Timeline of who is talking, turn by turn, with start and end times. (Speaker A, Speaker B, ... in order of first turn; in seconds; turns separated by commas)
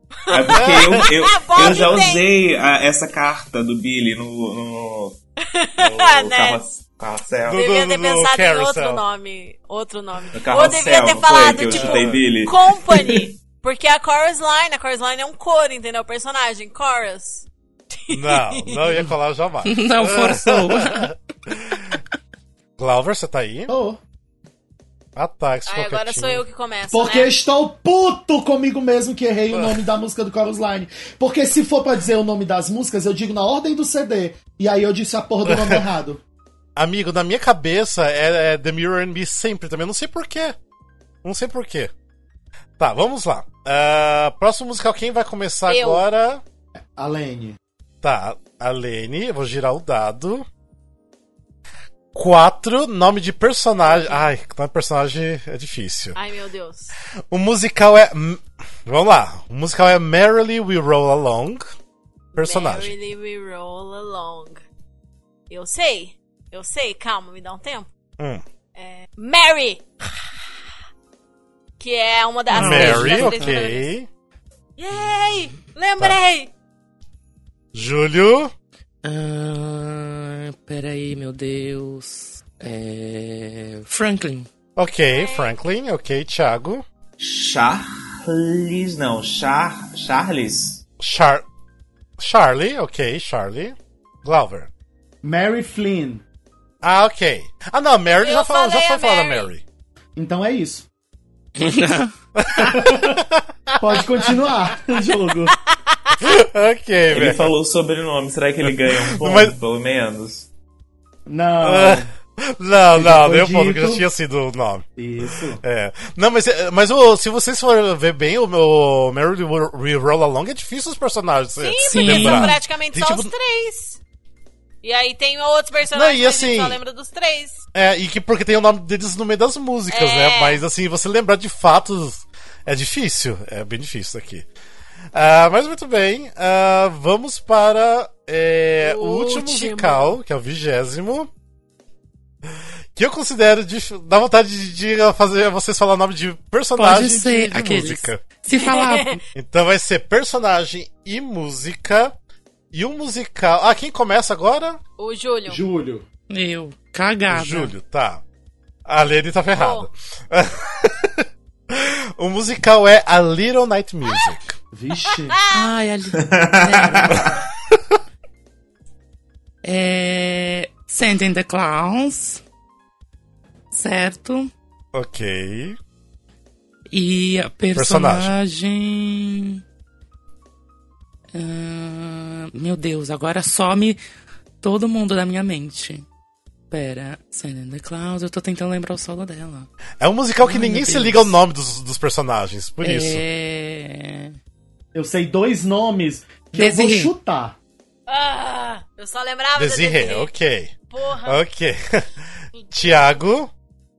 Speaker A: 0.3-2.3, Speaker B: 0.3-5.2, Speaker C: 0.5-1.1, Speaker C: 1.6-2.0, Speaker A: 5.4-6.7, Speaker B: 5.8-7.7, Speaker C: 7.5-9.0, Speaker A: 7.5-18.9, Speaker B: 10.3-13.2, Speaker C: 11.7-12.2, Speaker C: 18.1-21.9, Speaker D: 19.6-21.1, Speaker C: 22.8-23.7, Speaker E: 23.7-24.0, Speaker C: 25.2-26.4, Speaker A: 25.7-27.3, Speaker E: 26.9-36.2, Speaker C: 35.5-35.8, Speaker C: 36.8-40.5, Speaker C: 41.2-41.9, Speaker C: 42.8-46.4, Speaker A: 45.7-46.0, Speaker E: 47.0-47.6, Speaker C: 48.0-50.5, Speaker C: 52.1-56.2, Speaker A: 53.8-54.3, Speaker A: 56.1-56.9, Speaker C: 57.3-61.7, Speaker A: 62.4-64.6, Speaker C: 62.4-62.9, Speaker A: 65.5-67.9, Speaker A: 68.8-69.8, Speaker A: 71.8-73.9, Speaker D: 72.5-73.6, Speaker C: 72.5-74.1, Speaker A: 74.8-76.5, Speaker C: 77.7-78.5, Speaker D: 79.0-84.5, Speaker C: 84.8-86.8, Speaker A: 85.1-85.5, Speaker B: 87.2-90.8, Speaker C: 91.0-91.5, Speaker C: 92.2-94.7, Speaker E: 95.2-96.2, Speaker C: 96.8-99.6, Speaker A: 98.2-99.5, Speaker E: 100.2-100.9, Speaker D: 101.6-102.1, Speaker C: 102.4-104.1, Speaker E: 102.5-103.2, Speaker E: 103.8-105.5, Speaker A: 105.7-106.2, Speaker C: 106.2-107.5, Speaker B: 107.1-110.5, Speaker C: 108.7-109.6, Speaker E: 111.3-112.1, Speaker C: 111.6-114.9, Speaker E: 113.0-114.1, Speaker E: 115.0-115.6, Speaker C: 115.6-123.3, Speaker A: 121.6-124.0, Speaker D: 121.8-122.6, Speaker A: 124.8-127.7, Speaker C: 125.9-126.8, Speaker C: 127.7-134.5, Speaker A: 129.9-130.6, Speaker C: 135.1-141.3, Speaker A: 138.8-140.2, Speaker C: 142.9-148.2, Speaker D: 146.8-149.2, Speaker A: 148.6-149.2, Speaker C: 149.3-152.1, Speaker C: 152.7-154.8, Speaker A: 155.0-155.6, Speaker E: 155.5-156.1, Speaker D: 156.3-157.7, Speaker C: 157.3-158.2, Speaker C: 158.9-164.6, Speaker A: 159.6-159.9, Speaker E: 164.7-165.4, Speaker A: 165.3-165.7, Speaker D: 165.5-167.3, Speaker B: 166.2-167.4, Speaker D: 169.6-172.4, Speaker D: 173.7-174.5, Speaker C: 174.9-175.8, Speaker D: 176.9-179.6, Speaker C: 177.8-178.3, Speaker D: 181.3-184.0, Speaker D: 184.6-186.1, Speaker D: 186.7-189.7, Speaker C: 190.0-193.2, Speaker D: 190.4-191.3, Speaker D: 192.8-194.4, Speaker E: 194.9-197.6, Speaker D: 196.6-197.1, Speaker A: 198.1-200.3, Speaker C: 199.6-200.7, Speaker A: 200.9-201.4, Speaker C: 201.2-202.1, Speaker C: 202.7-203.5